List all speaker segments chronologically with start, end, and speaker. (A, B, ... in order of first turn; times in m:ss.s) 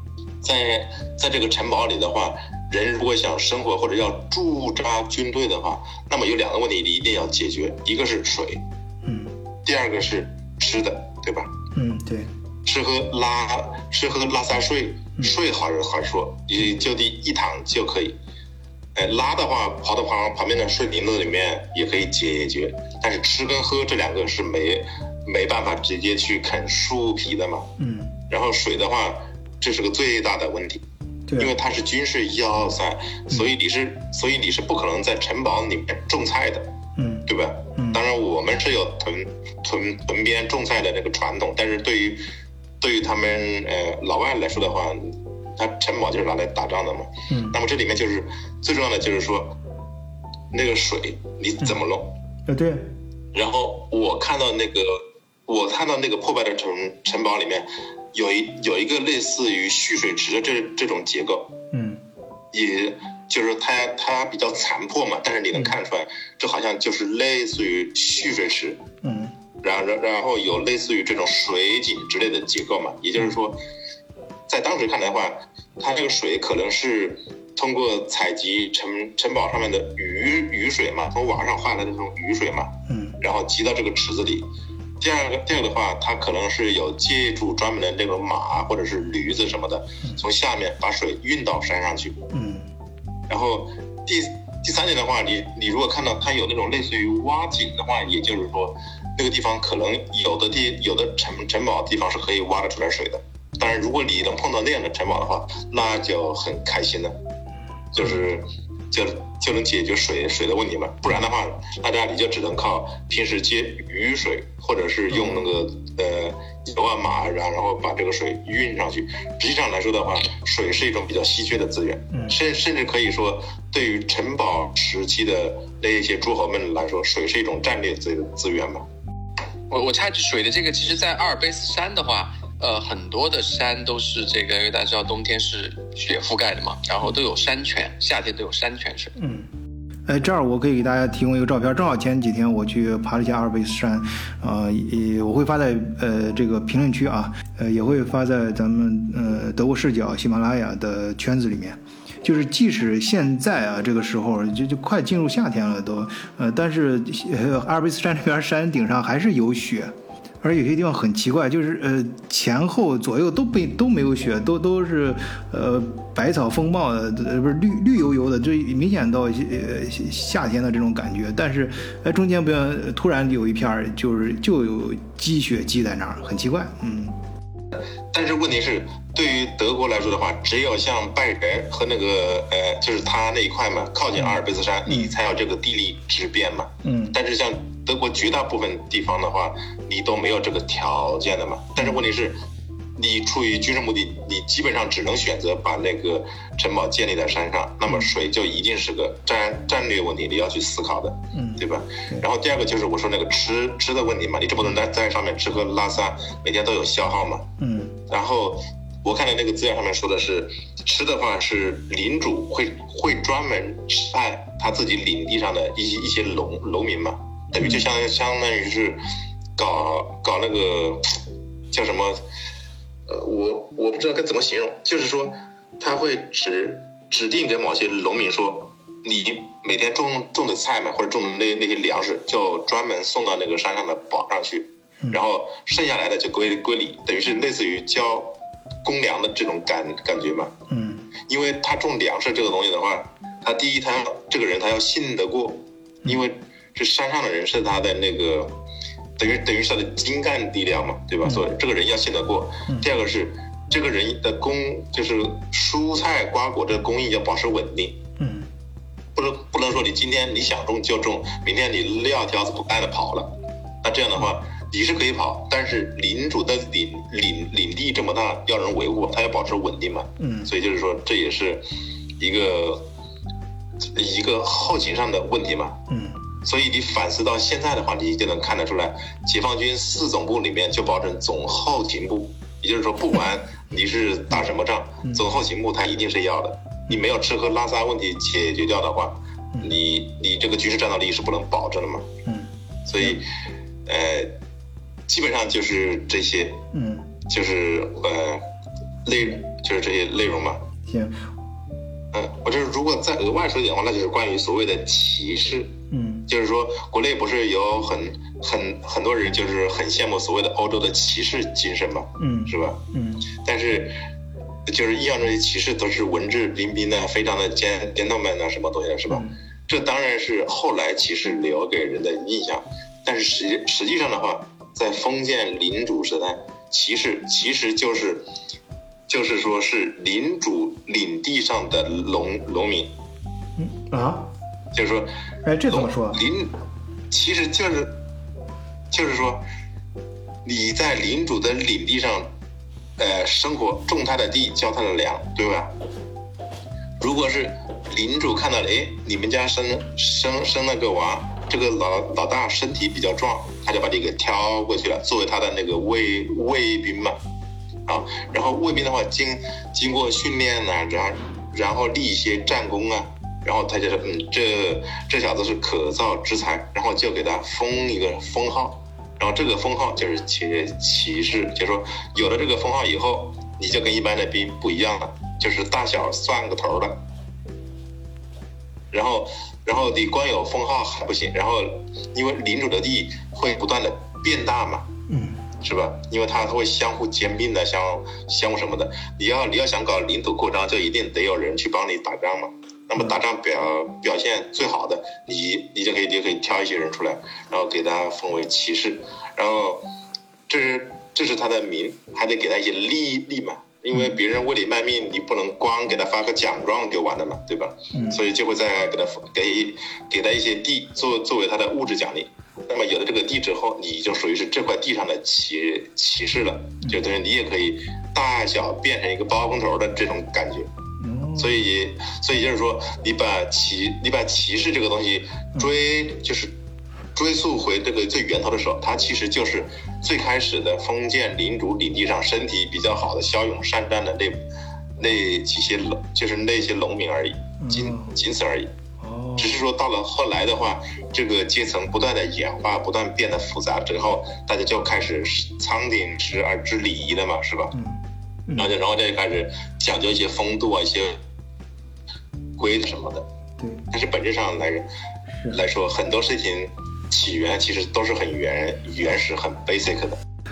0:00.4-0:08.6 A
0:09.0-0:09.3 B
0:09.6-0:11.5 A
0:11.7-0:12.3 B
0:12.6-0:18.2 A
0:18.9-0:27.7 A
0:27.8-0:28.2 B
0:28.3-0:30.8 A
0:31.3-0:31.5 B
0:31.4-0:36.6 A
0:37.0-0:38.0 B
0:37.3-0:42.2 A
0:42.8-0:49.6 A
0:47.3-0:47.6 B
0:50.5-0:52.1 A
0:52.5-0:52.9 B
0:53.3-1:01.5 A
1:01.7-1:02.0 B
1:02.5-1:08.8 A
1:09.0-1:09.3 B
1:09.6-1:13.6 A
1:14.5-1:24.5 A
1:22.9-1:23.2 B
1:25.0-1:32.2 A
1:32.3-1:32.7 B
1:33.3-1:47.1 A
1:47.9-2:08.8 A
1:55.1-1:55.4 B
2:02.1-2:02.4 B
2:09.7-2:19.2 C
2:19.2-2:19.5 B
2:20.1-2:57.2 B
2:58.1-3:12.4 A
3:04.2-3:05.1 B
3:06.8-3:07.2 B
3:13.0-3:27.4 A
3:21.3-3:22.2 B
3:27.6-3:28.0 B
3:28.1-3:39.0 A
3:37.6-3:37.8 B
3:39.6-3:41.0 A
3:41.7-3:42.2 A
3:43.1-4:00.5 A
4:00.7-4:01.1 B
4:01.3-4:08.5 A
4:09.2-4:18.0 A
4:18.2-4:18.5 B
4:19.2-4:31.6 A
4:30.2-4:30.5 B
4:32.2-4:32.9 A
4:33.9-4:35.8 A
4:35.9-4:36.3 B
4:36.4-4:52.1 A
4:52.2-4:53.2 B
4:52.9-4:53.3 A
4:53.9-4:54.3 A
4:55.1-4:56.6 A
4:56.7-4:57.1 B
4:57.3-4:58.4 A
4:59.0-5:00.6 A
5:00.8-5:01.2 B
5:02.1-5:12.8 A
5:05.9-5:06.3 B
5:12.2-5:13.3 B
5:13.3-5:13.9 A
5:14.7-5:28.2 A
5:29.1-5:32.9 A
5:33.6-5:34.3 B
5:34.7-5:35.1 A
5:35.4-5:36.2 B
5:35.6-5:36.5 A
5:37.1-5:38.0 A
5:38.9-5:39.4 A
5:40.4-5:42.3 A
5:43.0-5:45.7 A
5:47.0-5:57.2 A
5:57.9-6:17.0 A
6:18.9-6:24.9 A
6:25.1-6:25.4 B
6:25.6-6:39.8 A
6:40.5-7:00.7 A
6:47.9-6:48.2 B
7:01.0-7:01.6 B
7:01.4-7:06.5 A
7:07.1-7:14.4 A
7:15.0-7:18.7 A
7:17.6-7:18.1 B
7:19.0-7:19.6 B
7:19.4-7:27.7 A
7:27.7-7:28.7 B
7:28.6-7:31.2 A
7:32.6-7:33.2 A
7:33.6-7:33.8 B
7:33.9-7:34.9 A
7:35.5-7:40.2 A